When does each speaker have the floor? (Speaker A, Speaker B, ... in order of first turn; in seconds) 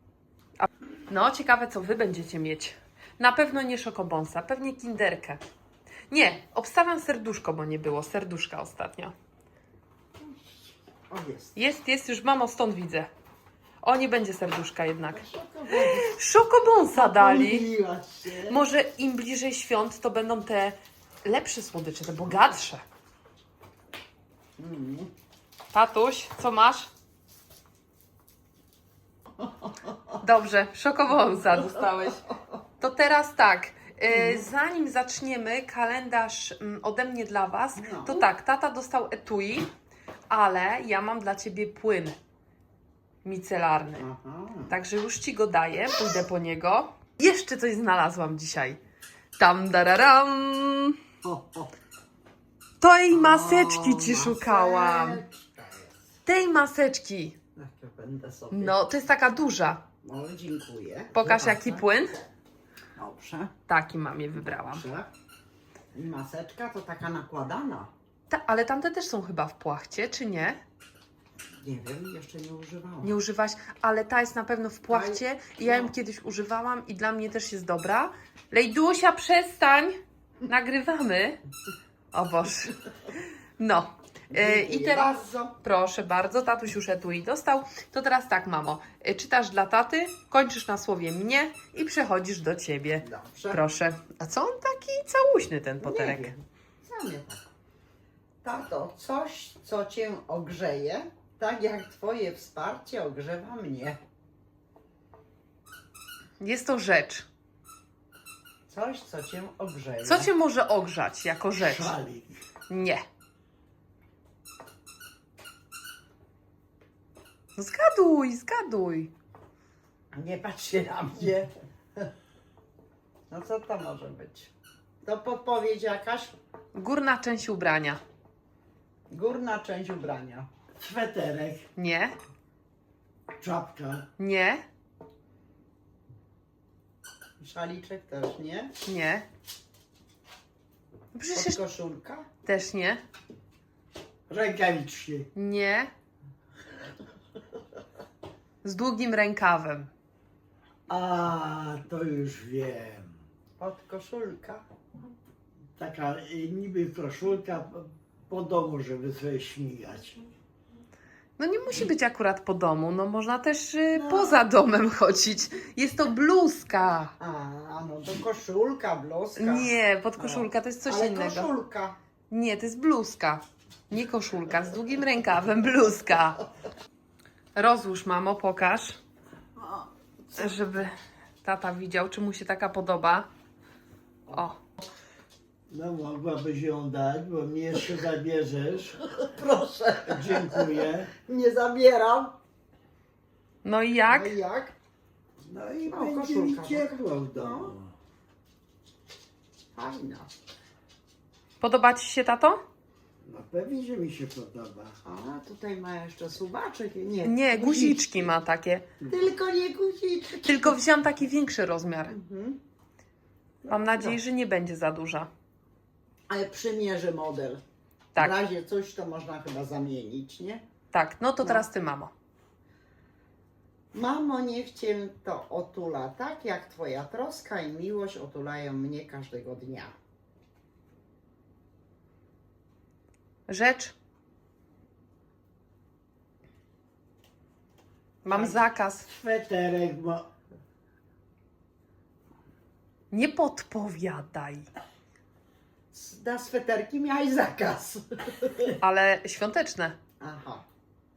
Speaker A: 0.6-5.4, 6.1-9.1, 11.6-13.1, 13.8-17.7, 18.5-22.8, 25.7-26.9, 30.2-32.3, 32.8-39.7, 40.3-42.2, 43.2-44.1, 44.7-48.8, 49.4-51.0, 52.8-55.2, 56.2-57.4, 58.5-59.8, 61.1-62.2, 63.7-64.8, 68.3-70.6, 73.0-81.4, 82.1-96.3, 106.4-107.3, 110.0-112.0, 112.7-113.0, 117.6-119.1, 126.7-128.0, 131.8-132.1, 134.2-134.6, 138.8-139.2, 141.1-141.6, 142.4-143.0, 145.3-145.9, 148.6-149.9, 161.4-167.1, 169.3-171.5, 172.3-176.4, 177.6-179.0, 180.3-183.3, 184.3-184.6, 193.6-194.4, 201.6-202.6, 207.2-208.9, 210.4-212.1, 213.7-215.3, 218.1-218.4, 220.9-222.1, 233.5-233.9, 238.2-239.1, 243.1-244.7, 248.8-250.0
Speaker B: 10.2-11.6, 15.1-16.2, 16.9-18.6, 24.6-25.1, 29.4-29.9, 31.5-32.6, 34.1-34.4, 37.8-38.3, 44.0-44.8, 51.2-51.7, 53.1-56.1, 57.5-58.8, 60.0-61.9, 63.0-63.5, 64.4-65.1, 65.9-67.9, 71.6-73.1, 74.9-75.9, 84.3-85.5, 93.0-93.6, 95.8-97.4, 98.4-104.0, 108.7-110.3, 120.1-122.1, 123.3-124.5, 125.0-126.3, 129.1-130.5, 137.4-138.7, 141.3-142.3, 153.6-154.6, 163.9-164.4, 167.2-172.0, 179.6-180.6, 189.2-192.4, 194.1-194.7, 195.8-197.8, 199.7-200.3, 205.0-208.3, 209.0-210.8, 212.1-212.6, 213.6-214.2, 216.3-217.6, 218.2-220.6, 223.9-229.9, 245.9-248.8, 250.2-250.6
Speaker C: 111.6-112.4, 130.8-131.7, 133.4-134.1, 144.3-145.3, 150.9-153.2, 155.8-160.2, 185.7-189.3, 190.1-191.1, 195.5-197.9, 203.2-205.0, 238.3-240.3